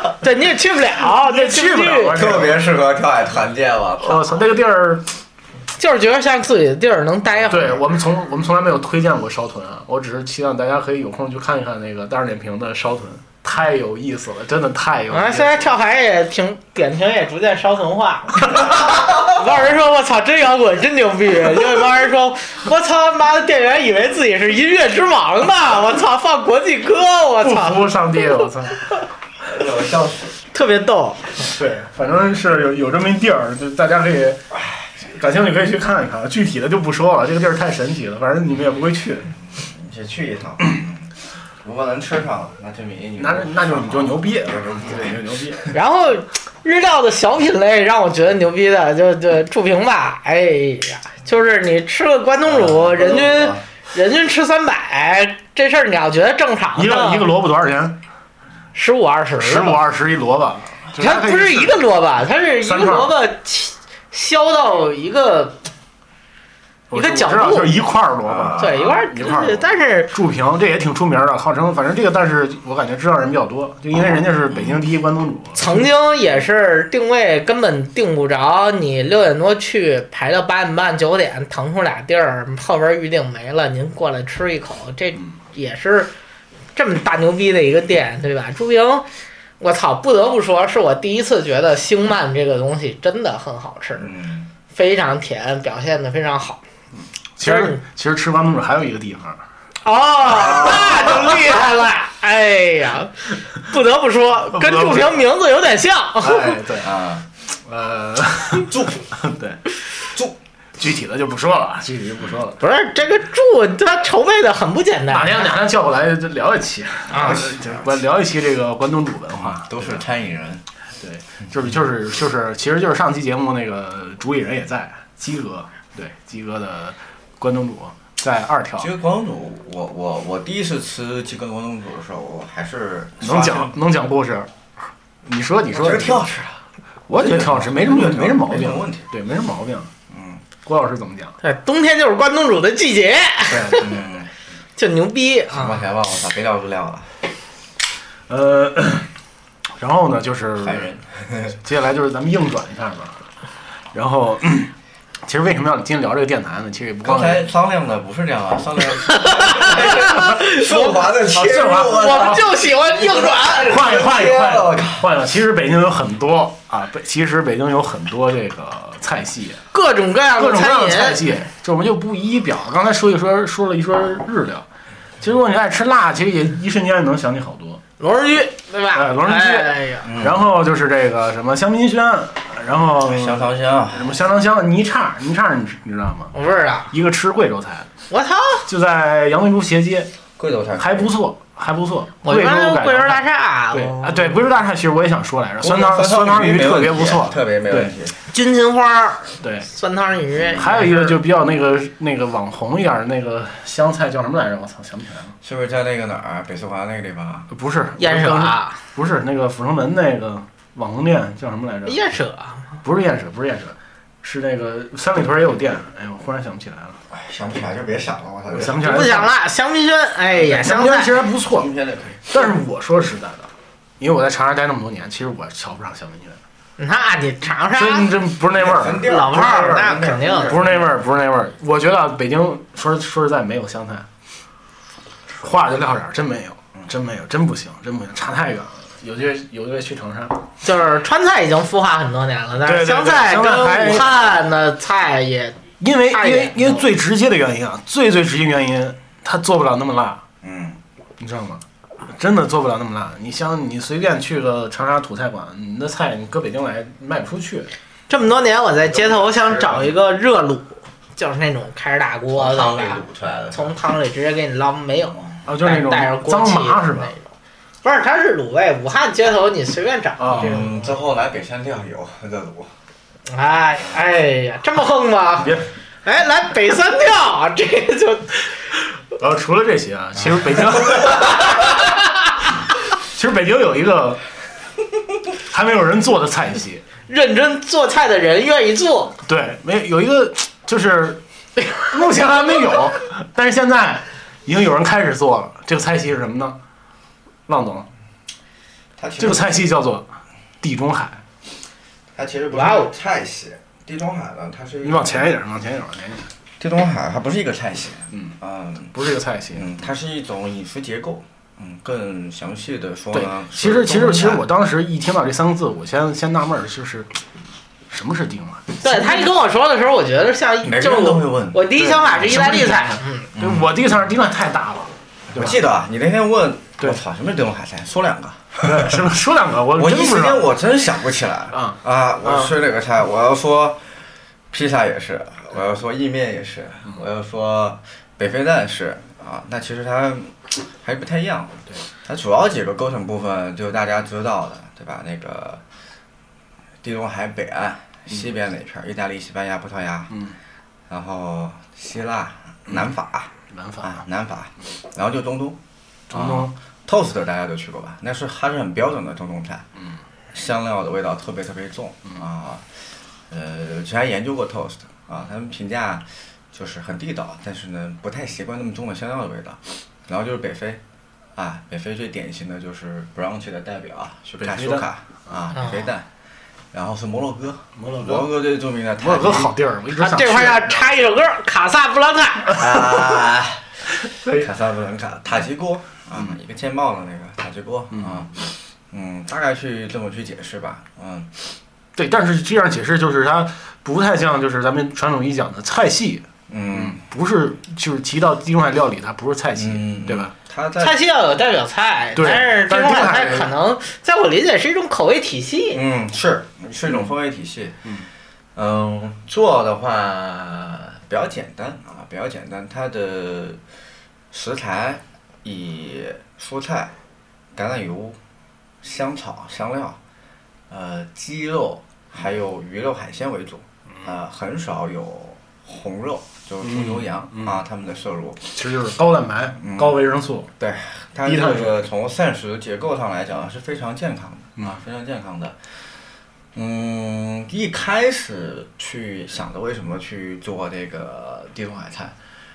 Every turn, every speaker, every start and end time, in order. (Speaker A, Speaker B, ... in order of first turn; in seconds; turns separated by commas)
Speaker A: 0.2-2.2, Speaker B: 1.0-2.6, Speaker C: 2.1-4.4, Speaker B: 4.0-5.1, Speaker A: 5.8-7.8, Speaker B: 7.5-15.7, Speaker A: 15.1-27.9, Speaker B: 27.4-28.8, Speaker C: 29.4-30.4, Speaker A: 30.5-31.5, Speaker B: 31.5-34.4, Speaker B: 35.0-39.3, Speaker C: 39.5-45.7, Speaker B: 43.2-45.6, Speaker A: 45.7-57.3, Speaker C: 52.5-53.6, Speaker B: 56.8-58.0, Speaker A: 58.7-59.8, Speaker B: 59.4-61.8, Speaker A: 61.0-65.6, Speaker B: 62.6-63.1, Speaker B: 66.9-75.8, Speaker A: 66.9-67.8, Speaker C: 68.3-68.9, Speaker A: 68.6-70.1, Speaker A: 75.6-86.1, Speaker A: 86.8-89.1, Speaker A: 89.6-94.1, Speaker C: 94.0-94.5, Speaker A: 94.7-96.6, Speaker B: 97.0-99.4, Speaker A: 97.4-97.8, Speaker A: 99.8-106.6, Speaker C: 100.3-101.5, Speaker B: 100.6-101.6, Speaker B: 104.5-105.2, Speaker B: 106.2-107.0, Speaker C: 106.8-107.2, Speaker B: 107.5-109.6, Speaker C: 108.7-109.1, Speaker B: 110.8-112.6, Speaker A: 112.6-115.5, Speaker B: 115.1-120.0, Speaker A: 117.1-117.4, Speaker C: 117.2-118.0, Speaker C: 119.4-120.6, Speaker B: 121.0-128.9, Speaker C: 128.8-133.7, Speaker B: 133.2-134.5, Speaker B: 135.2-136.3, Speaker C: 135.7-136.6, Speaker B: 137.1-139.9, Speaker C: 137.1-139.1, Speaker C: 140.1-140.4, Speaker B: 140.6-141.4, Speaker A: 141.4-143.9, Speaker C: 143.5-144.3, Speaker B: 143.5-143.8, Speaker A: 144.8-145.8, Speaker C: 145.5-147.1, Speaker B: 148.3-149.1, Speaker B: 149.8-150.9, Speaker C: 150.6-151.6, Speaker B: 151.5-153.2, Speaker B: 153.9-154.7, Speaker B: 155.2-157.5, Speaker C: 157.0-165.1, Speaker A: 159.1-161.0, Speaker B: 161.3-162.4, Speaker A: 161.9-163.9, Speaker B: 163.6-169.6, Speaker A: 169.7-171.2, Speaker B: 170.3-174.7, Speaker B: 175.2-177.8, Speaker A: 178.0-180.1, Speaker B: 178.9-186.3, Speaker C: 180.0-180.4, Speaker C: 183.0-184.2, Speaker A: 186.3-186.9, Speaker B: 186.9-187.9, Speaker A: 188.1-188.7, Speaker B: 188.7-190.1, Speaker C: 190.4-191.1, Speaker B: 190.8-197.9, Speaker A: 192.2-194.3, Speaker C: 195.6-198.2, Speaker A: 198.3-201.2, Speaker B: 199.4-199.7, Speaker C: 200.4-200.7, Speaker B: 200.5-205.4, Speaker C: 205.4-207.5, Speaker B: 207.5-212.0, Speaker A: 208.0-208.8, Speaker A: 211.8-212.8, Speaker B: 212.8-217.0, Speaker C: 217.1-219.1, Speaker B: 218.5-219.3, Speaker A: 218.8-221.2, Speaker B: 220.3-221.7, Speaker C: 221.4-222.4, Speaker B: 222.3-226.4, Speaker A: 226.8-228.1, Speaker B: 227.7-229.9, Speaker C: 228.5-230.9, Speaker A: 229.0-230.6, Speaker B: 230.5-234.1, Speaker B: 235.3-240.4, Speaker A: 240.6-246.8, Speaker B: 242.7-244.1, Speaker B: 245.8-250.2, Speaker C: 250.4-250.8, Speaker B: 251.2-257.7, Speaker A: 258.1-267.3, Speaker C: 258.9-260.0, Speaker C: 262.3-263.8, Speaker B: 265.5-267.1, Speaker A: 267.8-270.9, Speaker B: 270.2-270.7, Speaker C: 270.3-272.7, Speaker A: 273.3-278.6, Speaker B: 279.1-281.7, Speaker B: 283.0-284.2, Speaker B: 285.4-286.9, Speaker A: 287.1-289.2, Speaker B: 289.2-296.6, Speaker B: 297.5-297.9, Speaker C: 299.0-299.6, Speaker B: 299.2-300.1, Speaker B: 300.6-301.2, Speaker C: 302.1-305.4, Speaker A: 302.5-302.9, Speaker B: 304.8-306.3, Speaker C: 306.6-308.9, Speaker B: 308.9-309.7, Speaker C: 309.5-314.4, Speaker B: 313.1-317.2, Speaker B: 317.9-319.3, Speaker A: 318.8-323.3, Speaker C: 320.6-321.6, Speaker B: 321.8-325.6, Speaker C: 323.4-323.7, Speaker C: 325.3-329.0, Speaker B: 328.6-330.5, Speaker C: 329.8-345.6, Speaker B: 331.5-332.5, Speaker C: 346.8-350.2, Speaker B: 350.1-350.4, Speaker C: 350.9-355.6, Speaker B: 353.5-354.0, Speaker B: 356.1-356.5, Speaker C: 356.1-359.7, Speaker C: 360.3-370.8, Speaker C: 371.4-376.1, Speaker B: 374.4-375.5, Speaker A: 375.5-375.9, Speaker C: 376.7-379.5, Speaker B: 377.8-378.3, Speaker B: 379.0-380.9, Speaker A: 379.9-382.7, Speaker C: 382.5-391.6, Speaker B: 384.0-384.5, Speaker B: 387.9-388.3, Speaker B: 392.0-400.3, Speaker C: 396.5-397.0, Speaker C: 399.6-401.0, Speaker A: 400.8-405.8, Speaker B: 402.2-403.5, Speaker C: 405.7-407.9, Speaker C: 408.6-413.6, Speaker C: 414.3-416.9, Speaker C: 417.5-418.2, Speaker C: 418.8-420.0, Speaker C: 420.7-428.6, Speaker B: 426.6-427.6, Speaker B: 428.6-430.5, Speaker C: 429.6-430.0, Speaker C: 430.6-435.9, Speaker B: 431.2-431.8, Speaker B: 434.6-434.8, Speaker C: 436.5-442.2